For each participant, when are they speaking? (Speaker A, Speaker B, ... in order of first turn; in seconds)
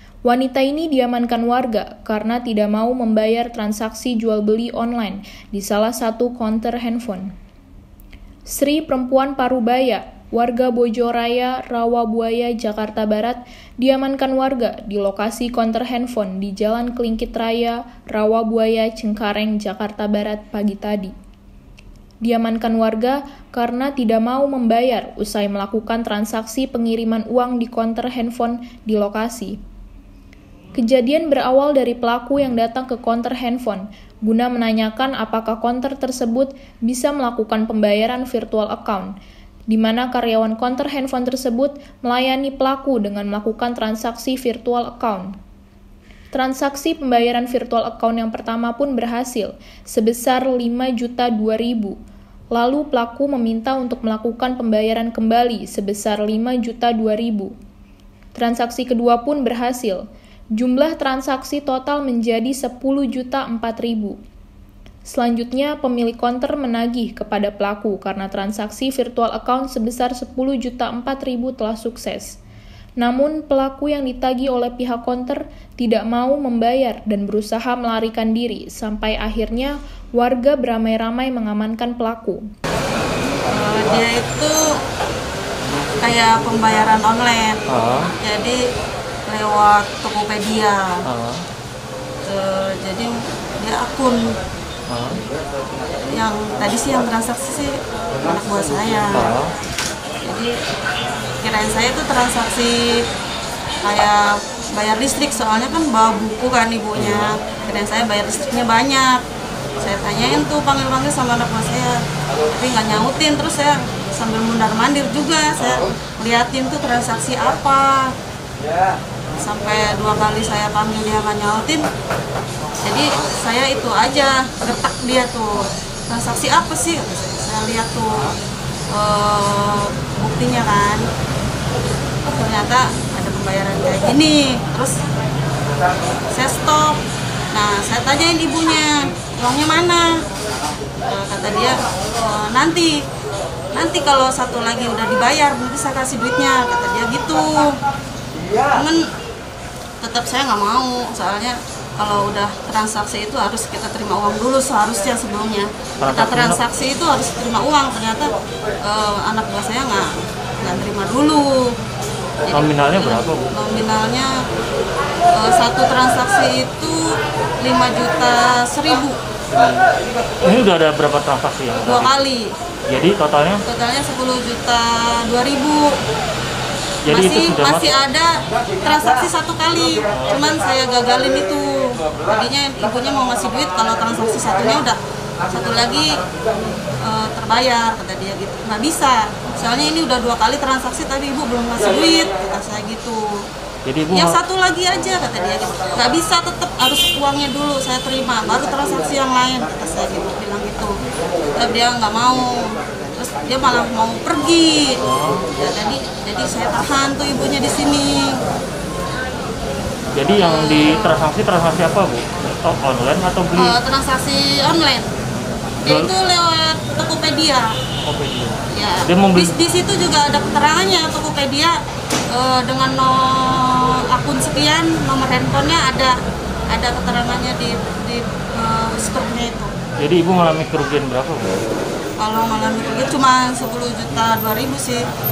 Speaker A: 0.2-7.3, 8.5-21.1, 22.2-29.6, 30.7-39.1, 39.7-45.3, 46.3-51.9, 52.5-57.5, 58.3-60.0, 60.6-64.2, 65.0-72.4, 73.0-82.4
Speaker B: 83.5-84.5, 86.0-87.6, 88.2-88.6, 89.3-91.0, 92.3-94.2, 96.1-99.3, 100.2-100.5, 101.4-103.0, 103.8-109.2, 109.8-112.0, 112.5-118.1, 119.4-121.8, 122.8-128.2, 128.9-131.0, 132.2-134.9, 136.3-137.0, 137.5-140.1, 141.1-143.0, 143.7-147.7, 148.7-149.0, 150.0-158.3, 158.8-160.1, 160.6-161.7, 162.4-164.3, 165.3-167.0, 167.6-169.2, 171.8-172.4, 173.7-175.9, 177.1-186.1, 187.0-193.2, 194.1-201.0, 201.5-205.0, 205.6-208.3, 210.4-211.2, 213.6-215.1, 215.8-217.7, 218.7-221.8, 222.3-226.2, 226.7-229.7, 232.2-235.0
Speaker C: 87.7-88.1, 91.0-91.4, 94.9-95.2, 99.1-99.5, 107.0-107.3, 156.0-156.6, 162.5-163.5, 169.5-169.8, 170.4-172.1, 172.9-173.6, 177.0-177.9, 180.1-180.4, 193.8-194.4, 205.0-205.5, 210.1-213.8, 215.8-216.1, 218.0-219.6, 230.0-231.6